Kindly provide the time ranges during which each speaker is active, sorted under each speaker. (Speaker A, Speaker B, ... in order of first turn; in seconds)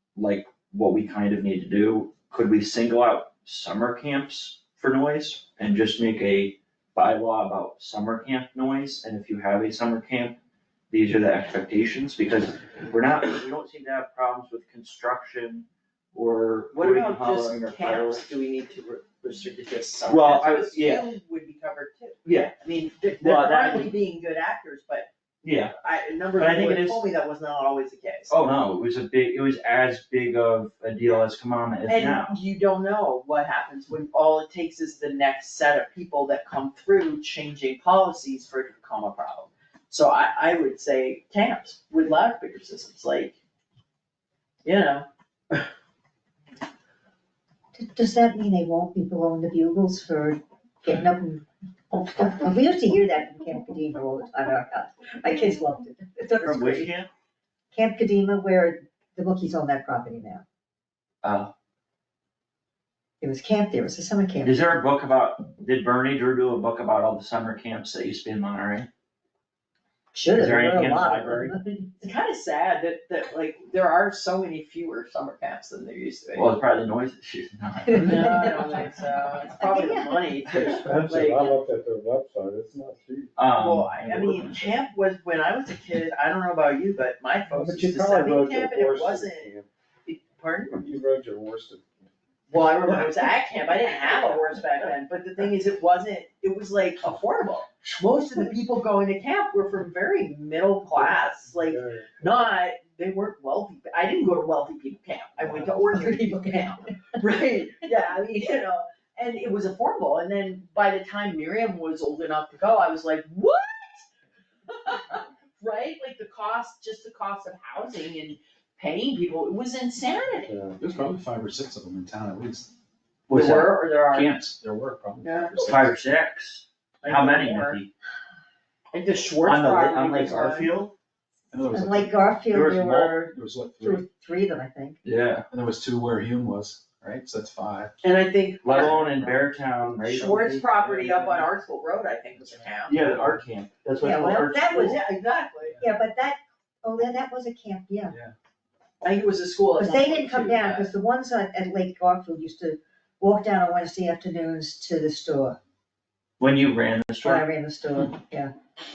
Speaker A: 0.1-10.4, 10.9-18.2, 20.1-21.1, 22.2-22.6, 23.2-23.9, 25.4-25.7, 26.3-27.1, 28.3-32.4, 56.4-57.1, 61.2-61.5, 64.4-68.9, 70.3-71.5, 76.3-78.1, 83.3-84.5, 123.3-123.6, 125.7-127.9, 129.4-130.9, 132.4-133.3, 135.0-135.4, 138.6-140.6, 142.9-144.9, 156.4-157.5
Speaker B: 16.7-25.1, 25.8-28.3, 31.9-43.4, 44.6-45.6, 72.0-76.5, 77.9-81.6, 83.5-89.5, 90.0-90.8, 92.5-114.1, 114.7-120.5, 123.3-124.3, 125.2-125.8, 127.0-127.8, 128.9-130.7, 138.0-139.1, 140.0-143.2, 144.0-145.8, 149.0-150.9
Speaker C: 47.7-56.9, 57.7-60.4, 63.2-64.5, 70.1-72.0, 77.8-78.8, 79.6-80.2, 105.7-107.2, 131.7-133.2, 133.8-135.0, 144.0-145.0, 145.8-148.1, 149.8-155.6, 157.2-158.5
Speaker D: 80.5-83.4, 87.5-89.7, 90.7-92.1, 92.8-93.1, 101.0-102.3, 120.4-120.8
Speaker E: 120.8-122.7, 123.3-126.0, 131.5-132.3, 133.2-134.1, 135.5-137.9, 139.0-139.4, 140.1-141.5, 142.4-143.4, 148.1-148.3